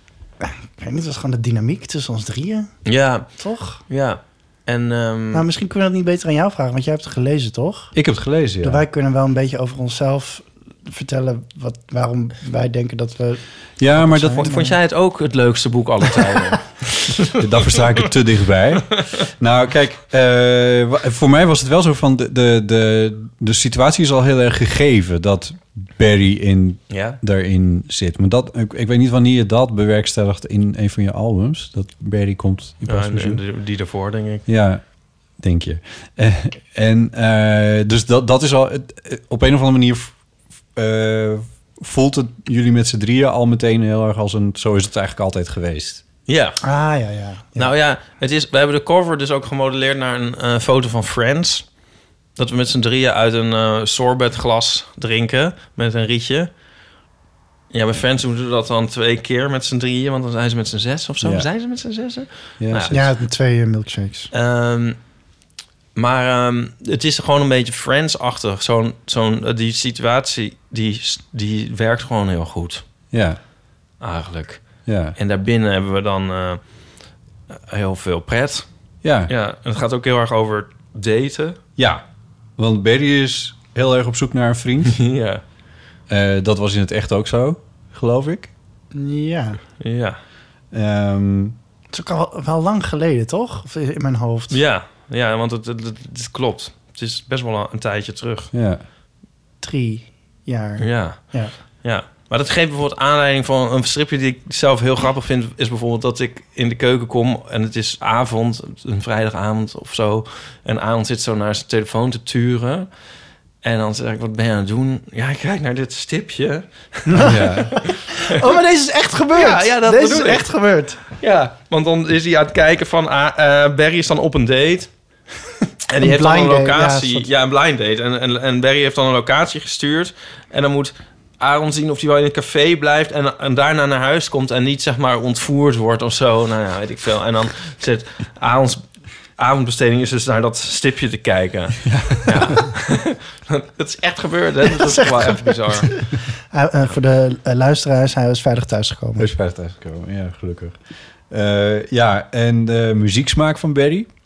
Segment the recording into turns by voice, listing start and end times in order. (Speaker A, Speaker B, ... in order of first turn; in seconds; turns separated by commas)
Speaker A: 0.4-2.7, Speaker B: 2.8-5.5, Speaker A: 3.2-3.8, Speaker A: 5.3-7.9, Speaker C: 7.9-8.8, Speaker A: 8.6-13.4, Speaker C: 13.8-14.5, Speaker A: 13.9-14.8, Speaker B: 14.2-17.8, Speaker C: 17.3-33.4, Speaker B: 26.9-27.2, Speaker B: 32.9-34.5, Speaker C: 34.5-40.2, Speaker C: 40.7-46.0, Speaker B: 46.3-46.6, Speaker A: 46.6-47.7, Speaker B: 47.5-51.6, Speaker B: 52.4-56.5, Speaker B: 57.7-63.0, Speaker C: 61.2-61.5, Speaker C: 62.6-63.1, Speaker A: 62.9-64.3, Speaker B: 64.3-65.0, Speaker B: 65.9-72.8, Speaker C: 73.1-73.4, Speaker B: 74.0-76.6, Speaker C: 74.8-75.2, Speaker B: 77.5-78.7, Speaker C: 79.0-79.3, Speaker B: 79.3-81.6, Speaker C: 81.8-82.0, Speaker C: 82.6-85.0, Speaker B: 84.9-85.4, Speaker C: 86.1-88.5, Speaker A: 88.9-89.6, Speaker B: 89.8-90.2, Speaker C: 90.7-91.5, Speaker A: 91.9-94.6, Speaker B: 94.5-98.5, Speaker C: 98.5-98.8, Speaker A: 99.6-101.5, Speaker B: 100.8-112.9, Speaker B: 113.6-117.3, Speaker A: 117.1-121.0, Speaker C: 117.2-117.9, Speaker B: 119.3-120.5, Speaker B: 121.1-124.9, Speaker B: 125.9-138.8, Speaker A: 126.0-127.3, Speaker B: 139.4-146.1, Speaker C: 141.8-142.7, Speaker A: 144.9-149.3, Speaker C: 149.2-154.1